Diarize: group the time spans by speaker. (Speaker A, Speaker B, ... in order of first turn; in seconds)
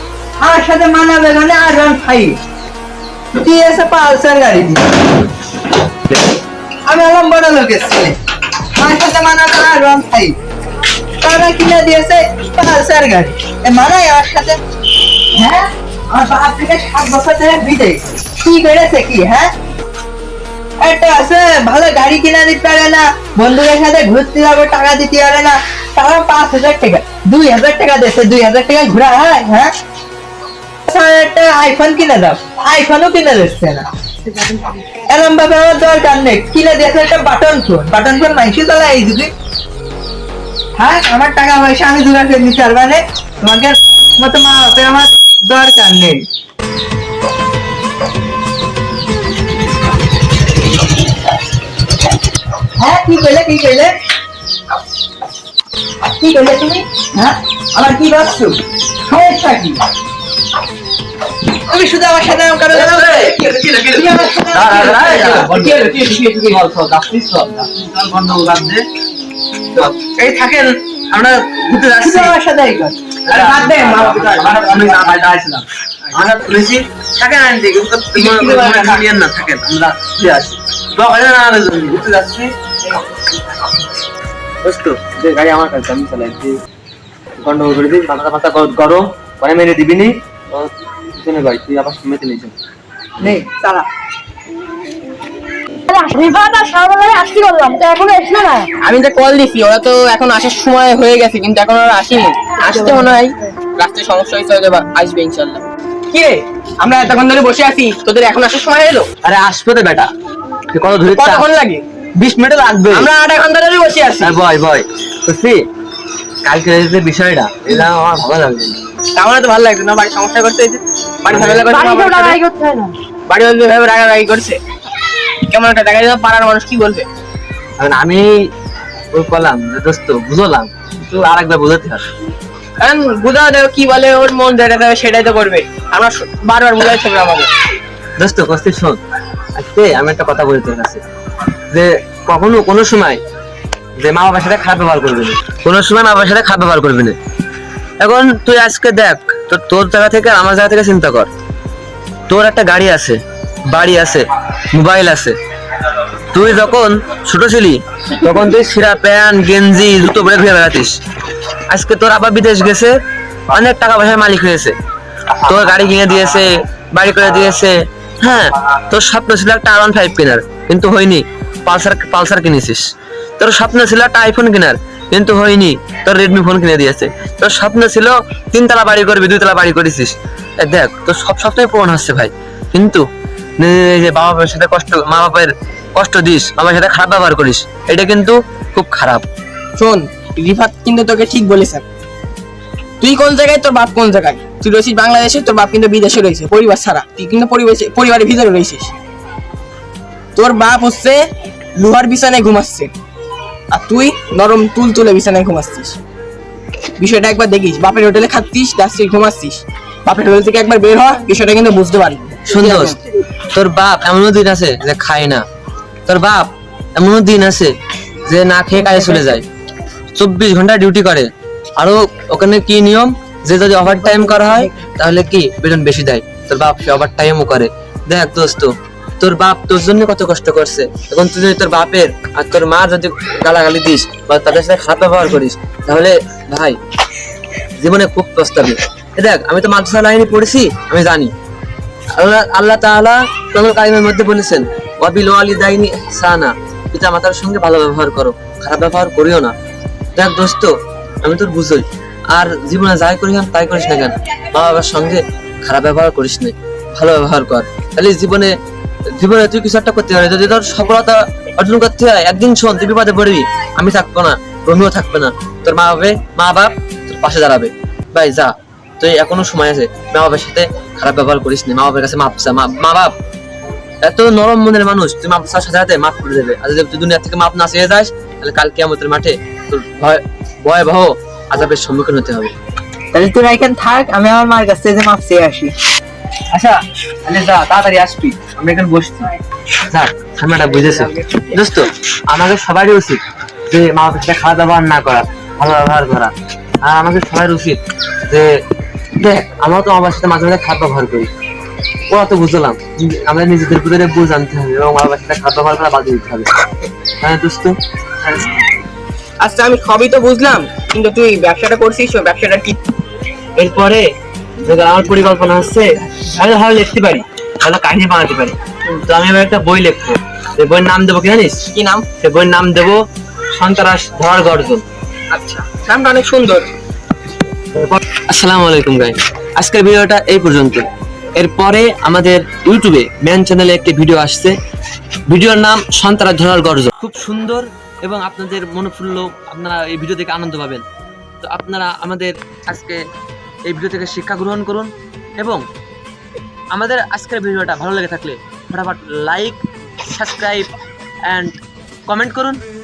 Speaker A: 0.4-2.4, 3.4-4.9, 6.9-8.1, 8.8-10.3, 11.2-14.6, 15.3-19.5, 20.8-29.7, 30.9-39.3, 40.8-46.2, 52.8-53.9, 56.2-59.8, 61.7-63.1, 63.9-65.5, 72.0-73.0, 93.2-93.8, 283.1-285.7
Speaker B: 62.7-68.8, 69.8-72.3, 73.2-82.5, 84.6-86.5, 87.4-92.5, 109.2-110.1, 110.7-111.5, 112.2-113.1, 114.2-115.6, 116.4-118.8, 121.3-121.7, 127.8-128.2, 129.1-132.0, 138.2-139.0, 139.6-141.0, 141.7-143.2, 144.0-147.2, 148.0-151.3, 152.3-155.4, 156.3-160.9, 161.7-162.9, 163.5-164.8, 165.4-172.8, 173.4-183.0, 183.6-189.2, 212.5-212.9, 213.5-215.4, 216.1-217.7, 218.2-219.5, 220.2-236.8, 237.8-241.3, 242.2-249.5, 250.2-250.7, 251.2-258.5, 259.2-273.1, 274.1-282.5, 286.5-289.3, 289.9-298.5, 299.2-301.3, 302.1-306.5, 307.2-307.8, 313.6-314.0, 314.6-321.6, 322.2-323.0, 323.6-324.8, 327.7-334.5, 335.3-340.8, 341.4-343.0, 343.7-345.6, 346.7-350.7, 351.3-351.6, 352.1-352.6
Speaker C: 64.9-66.5, 73.3-75.3, 78.1-79.0, 98.8-109.1, 111.1-111.8, 112.9-114.4, 119.2-122.4, 123.3-124.6, 125.5-127.1, 132.8-137.5, 189.8-191.8, 193.0-198.9, 200.4-201.2, 201.8-202.9, 203.7-206.0, 207.0-213.0, 290.7-291.6, 309.4-312.8, 321.7-322.1, 325.3-326.7
Speaker D: 95.9-98.7, 102.8-103.1, 121.7-122.9